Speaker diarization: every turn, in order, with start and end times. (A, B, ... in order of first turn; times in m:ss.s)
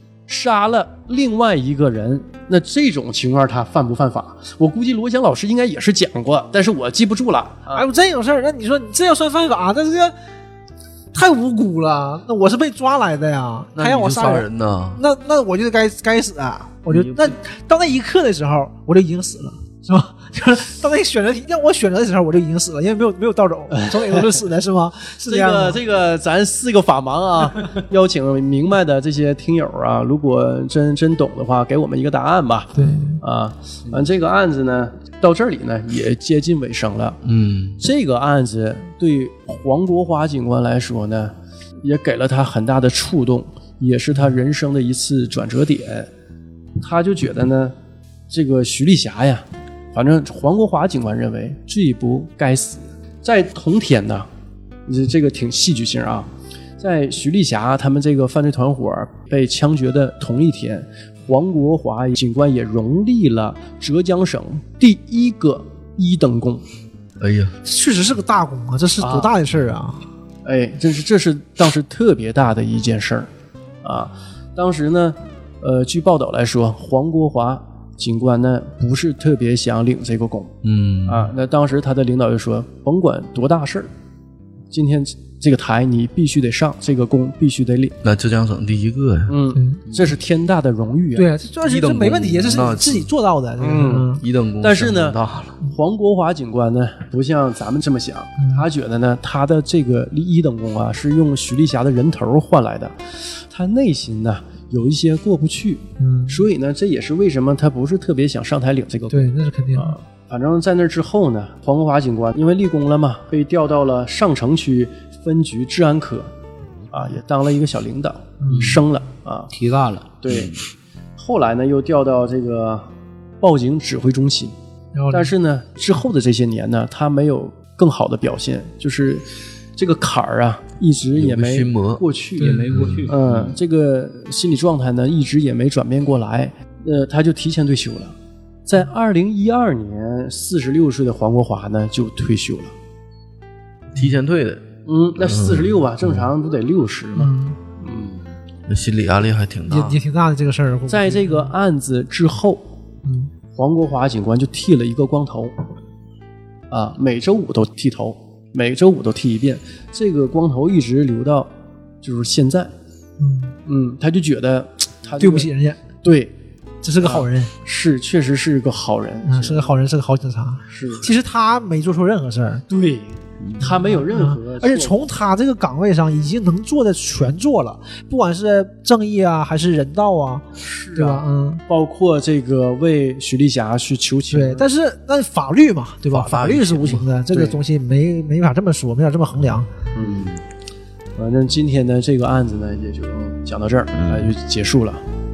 0:00.3-0:07.9 A
0:07.7-0:10.1 B
0:11.1-0:25.8 B
0:13.8-0:15.0 C
0:16.9-0:17.4 C
0:23.8-0:24.4 A
0:25.3-0:37.2 A
0:32.8-0:33.2 B
0:37.2-0:37.8 C
0:37.8-0:46.1 A
0:46.8-0:47.8 A
0:48.3-0:54.3 A
0:54.9-1:06.6 A
1:07.2-1:07.6 C
1:07.6-1:10.0 B
1:09.0-1:09.3 A
1:10.4-1:13.3 A
1:13.8-1:23.9 A
1:20.6-1:21.3 C
1:24.7-1:28.0 A
1:28.0-1:29.4 C
1:29.3-1:31.3 A
1:29.5-1:29.8 B
1:31.2-1:34.2 B
1:31.6-1:33.1 C
1:33.6-1:56.3 A
1:34.2-1:35.6 C
1:38.4-1:38.7 B
1:46.0-1:46.5 B
1:49.1-1:50.0 B
1:56.9-1:59.5 A
1:58.4-1:58.8 B
1:58.5-1:58.8 D
1:59.5-2:00.5 D
2:00.2-2:00.6 A
2:01.2-2:02.9 A
2:03.4-2:04.6 A
2:05.0-2:05.3 B
2:05.1-2:18.2 A
2:11.2-2:12.0 C
2:12.4-2:13.0 B
2:12.4-2:13.2 D
2:12.7-2:13.6 C
2:18.7-2:22.7 A
2:23.9-2:24.7 C
2:24.9-2:28.2 A
2:25.2-2:26.3 C
2:27.2-2:27.6 B
2:28.7-2:30.0 C
2:29.7-2:31.5 B
2:30.9-2:32.7 A
2:33.0-2:33.3 B
2:33.5-2:35.5 A
2:36.7-2:42.7 A
2:43.2-2:43.6 B
2:43.7-2:45.5 A
2:45.2-2:45.8 B
2:46.0-2:46.3 A
2:46.8-2:47.5 B
2:47.0-2:49.7 A
2:49.2-2:52.6 B
2:50.7-2:51.1 A
2:52.7-2:55.1 A
2:53.4-2:53.7 D
2:53.6-3:01.6 B
3:00.6-3:04.7 A
3:04.3-3:09.7 B
3:06.1-3:07.1 C
3:07.3-3:07.6 A
3:09.9-3:10.4 A
3:11.2-3:15.0 A
3:14.0-3:14.3 C